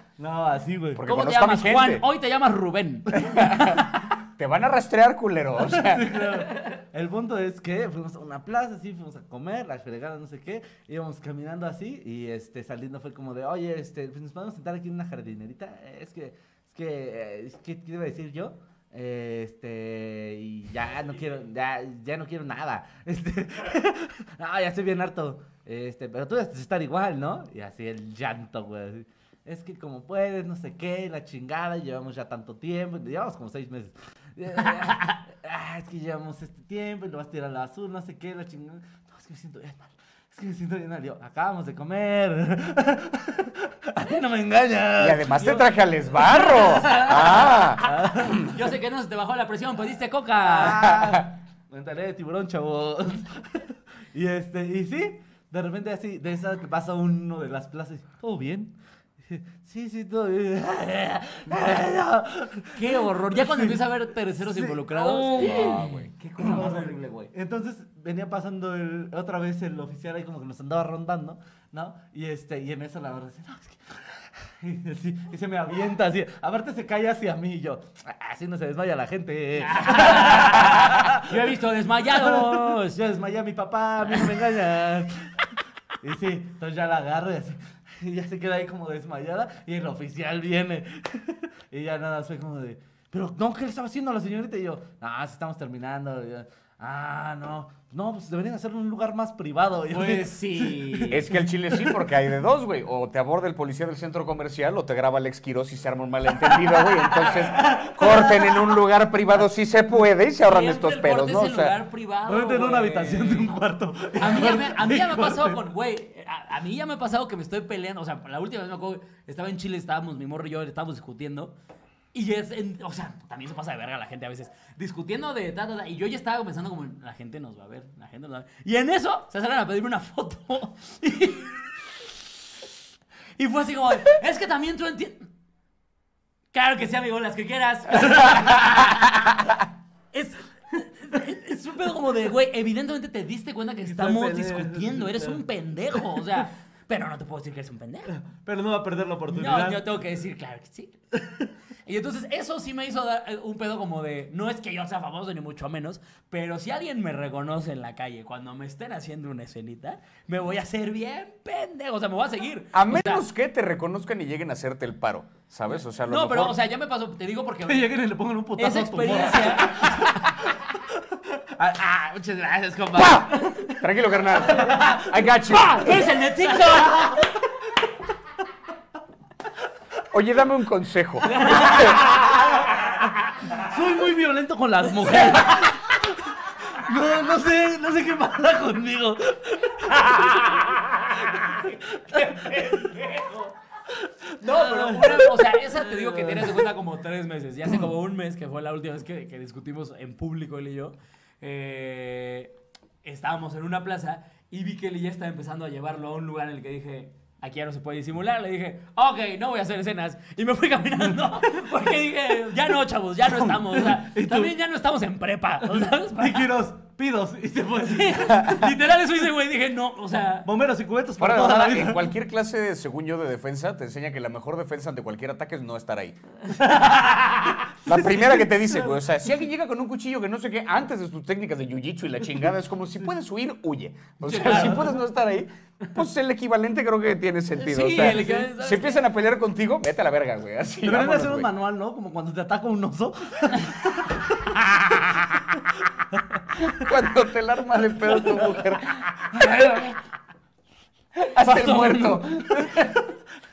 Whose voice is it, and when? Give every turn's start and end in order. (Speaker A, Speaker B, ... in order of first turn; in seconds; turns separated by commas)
Speaker A: 0.2-1.0, Speaker B: 0.9-2.1, Speaker C: 1.1-3.8, Speaker B: 3.1-6.2, Speaker A: 5.6-48.5, Speaker B: 45.0-48.5, Speaker C: 47.0-47.5, Speaker C: 48.4-50.8, Speaker A: 50.4-65.8, Speaker B: 50.8-51.3, Speaker C: 62.8-67.0, Speaker B: 65.3-66.6, Speaker A: 66.4-81.6, Speaker C: 79.6-83.0, Speaker A: 82.1-85.5, Speaker A: 86.0-102.0, Speaker C: 99.9-101.2, Speaker B: 101.1-111.8, Speaker A: 106.9-108.7, Speaker C: 110.4-113.5, Speaker A: 112.2-115.6, Speaker C: 114.2-121.5, Speaker C: 122.1-131.8, Speaker C: 133.4-135.3, Speaker C: 136.5-139.3, Speaker C: 140.1-148.2, Speaker A: 143.9-145.4, Speaker A: 148.1-149.8, Speaker C: 149.3-151.0, Speaker C: 151.9-163.3, Speaker B: 162.7-166.6, Speaker C: 166.1-167.9, Speaker A: 167.7-173.8, Speaker C: 168.6-170.3, Speaker B: 173.0-176.0, Speaker A: 174.5-175.2, Speaker C: 175.5-177.2, Speaker A: 176.6-177.4, Speaker B: 180.1-182.0, Speaker A: 181.3-182.7, Speaker C: 181.3-182.3, Speaker A: 183.5-192.9, Speaker C: 190.0-190.8, Speaker C: 191.3-193.5, Speaker A: 193.9-196.7, Speaker C: 194.4-216.5, Speaker A: 213.7-214.5, Speaker A: 215.7-218.7, Speaker C: 217.9-220.5, Speaker A: 220.4-222.1, Speaker B: 221.2-226.2, Speaker A: 226.6-227.3, Speaker C: 227.1-227.6, Speaker B: 227.8-241.5, Speaker A: 227.9-228.4, Speaker C: 234.2-235.0, Speaker C: 237.6-239.0, Speaker A: 238.0-238.2, Speaker A: 240.8-244.6, Speaker B: 246.6-249.5, Speaker C: 249.4-249.9, Speaker B: 251.2-252.9, Speaker C: 251.4-252.7